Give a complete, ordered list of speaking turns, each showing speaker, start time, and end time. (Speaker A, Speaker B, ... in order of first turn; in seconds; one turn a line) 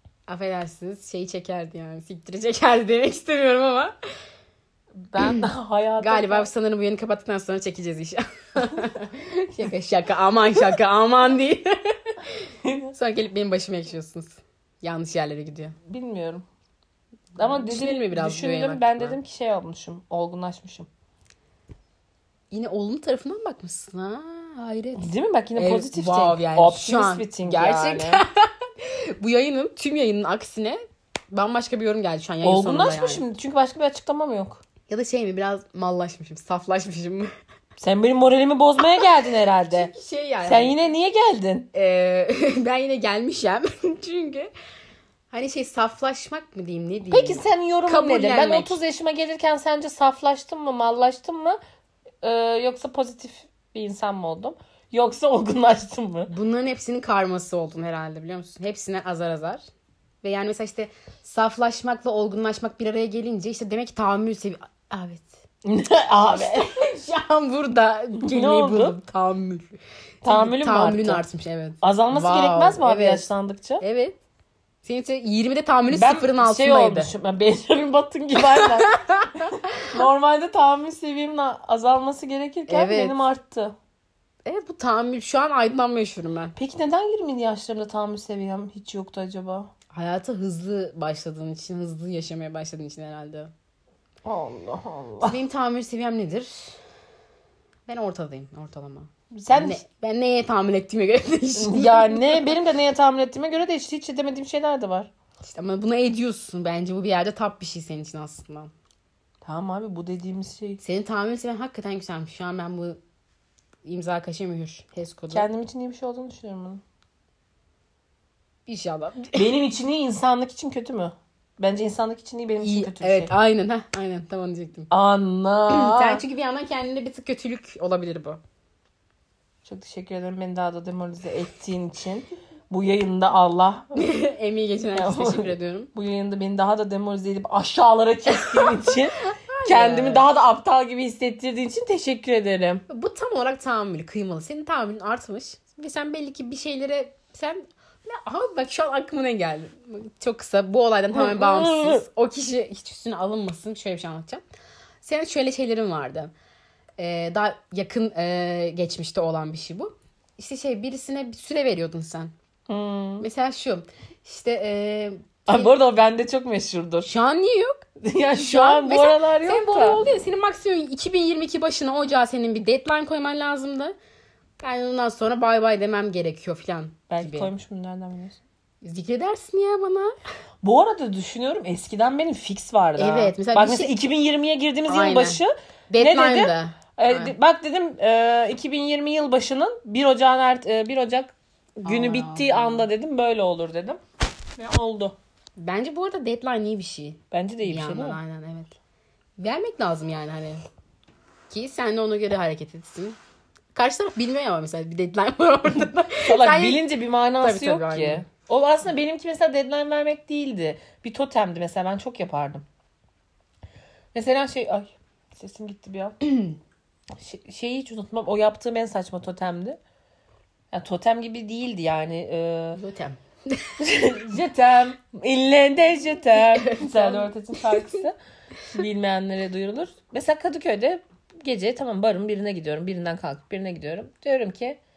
Speaker A: 0.3-3.9
Speaker B: 5.1-6.5
Speaker A: 5.2-5.5
Speaker A: 6.0-12.1
Speaker B: 12.6-12.9
Speaker A: 12.9-15.8
Speaker B: 15.9-16.4
Speaker B: 17.4-20.9
Speaker A: 17.4-19.2
Speaker A: 22.5-30.8
Speaker B: 25.0-28.2
Speaker A: 31.3-33.2
Speaker B: 32.4-34.6
Speaker A: 34.9-37.3
Speaker B: 37.8-39.9
Speaker A: 39.6-40.8
Speaker B: 40.4-41.7
Speaker A: 41.7-44.5
Speaker A: 45.3-48.8
Speaker B: 47.1-51.6
Speaker B: 52.2-56.3
Speaker A: 56.3-59.6
Speaker A: 60.2-65.4
Speaker B: 65.6-66.7
Speaker A: 66.3-73.3
Speaker B: 68.2-69.0
Speaker B: 70.2-71.2
Speaker B: 71.8-73.8
Speaker A: 73.8-74.2
Speaker A: 74.8-77.1
Speaker B: 75.9-83.7
Speaker A: 78.5-80.0
Speaker A: 82.7-83.2
Speaker A: 84.4-86.5
Speaker B: 86.5-89.7
Speaker A: 89.9-93.5
Speaker B: 94.2-95.4
Speaker A: 95.2-96.8
Speaker A: 97.9-102.5
Speaker B: 99.3-99.8
Speaker B: 101.6-105.1
Speaker A: 105.4-108.7
Speaker B: 109.4-110.8
Speaker A: 110.8-113.0
Speaker A: 113.8-115.5
Speaker B: 115.3-116.8
Speaker A: 118.7-119.5
Speaker B: 119.3-123.3
Speaker A: 122.6-124.9
Speaker B: 124.9-126.2
Speaker A: 125.7-128.4
Speaker B: 129.6-133.9
Speaker A: 133.9-135.9
Speaker B: 134.9-142.8
Speaker A: 138.4-140.2
Speaker A: 142.9-154.4
Speaker B: 151.1-152.0
Speaker A: 155.0-156.3
Speaker A: 157.0-162.3
Speaker B: 162.7-163.2
Speaker A: 163.2-165.7
Speaker B: 165.5-167.1
Speaker A: 167.0-173.9
Speaker B: 168.0-170.0
Speaker A: 174.6-177.5
Speaker B: 177.1-178.4
Speaker A: 178.8-180.1
Speaker B: 180.6-194.0
Speaker A: 183.0-183.9
Speaker A: 184.9-187.3
Speaker A: 191.8-192.8
Speaker B: 194.6-195.2
Speaker A: 195.6-198.8
Speaker B: 197.3-198.2
Speaker A: 199.4-200.6
Speaker A: 201.5-203.2
Speaker A: 203.7-206.8
Speaker B: 206.2-212.7
Speaker A: 207.4-208.2
Speaker B: 214.1-216.3
Speaker B: 217.1-219.8
Speaker B: 220.7-222.8
Speaker A: 222.7-223.8
Speaker B: 223.8-228.2
Speaker A: 226.5-227.9
Speaker B: 228.7-234.8